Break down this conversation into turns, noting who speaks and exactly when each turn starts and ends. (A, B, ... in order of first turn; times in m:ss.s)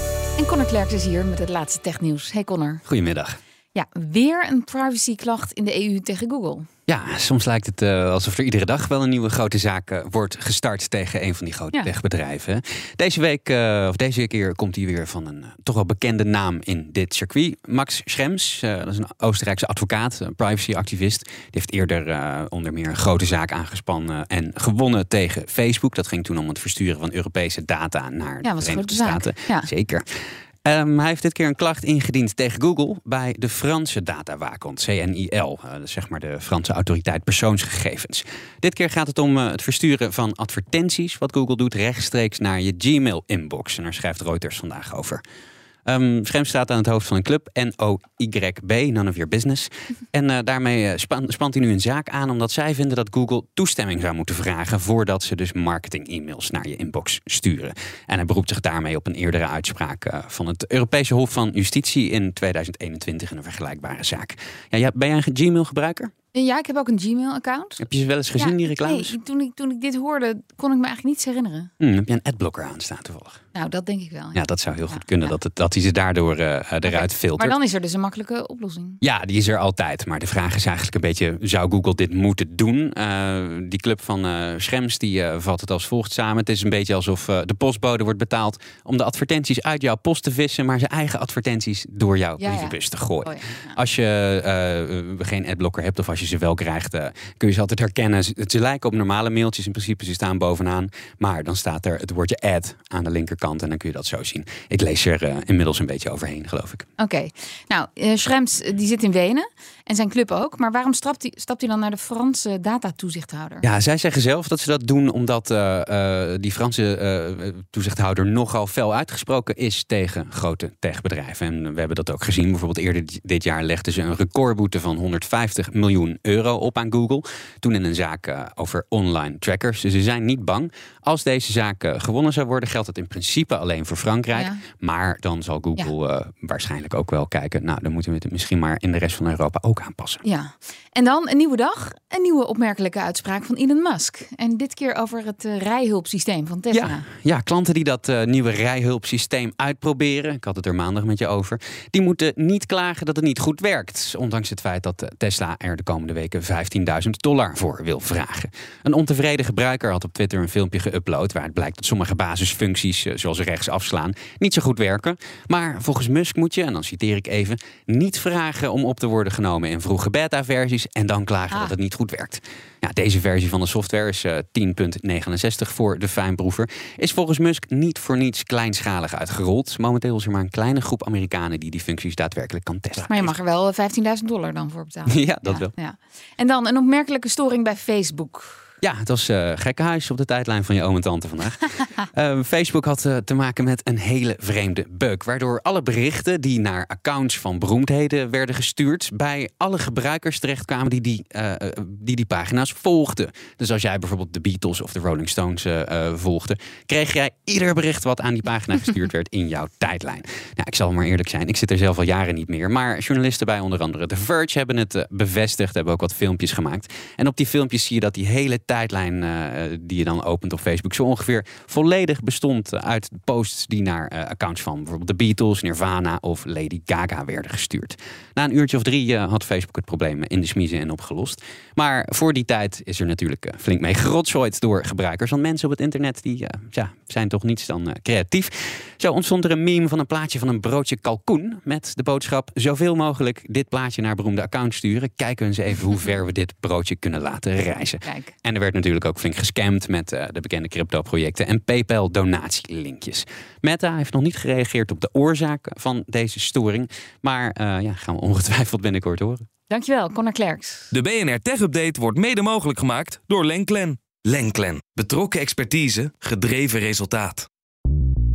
0:00.4-0:02.8 A
0:02.8-0:03.4 B
0:03.7-0:06.7 A
0:06.9-0:30.0 B
0:28.4-0:29.7 A
0:30.6-0:45.2 B
0:45.8-1:06.1 B
1:06.3-1:11.7 A
1:07.8-1:09.2 B
1:11.8-1:13.4 B
1:13.5-1:15.3 A
1:14.3-1:17.6 B
1:16.8-1:19.0 A
1:19.0-1:46.8 B
1:32.4-1:33.8 A
1:47.0-1:53.6 A
1:53.6-2:20.2 B
2:14.3-2:14.6 A
2:20.2-2:27.0 A
2:26.7-3:03.3 B
3:03.1-3:08.7 A
3:05.1-3:05.7 B
3:08.8-4:19.4 B
4:08.0-4:08.3 A
4:19.7-4:20.9 A
4:20.9-4:27.5 C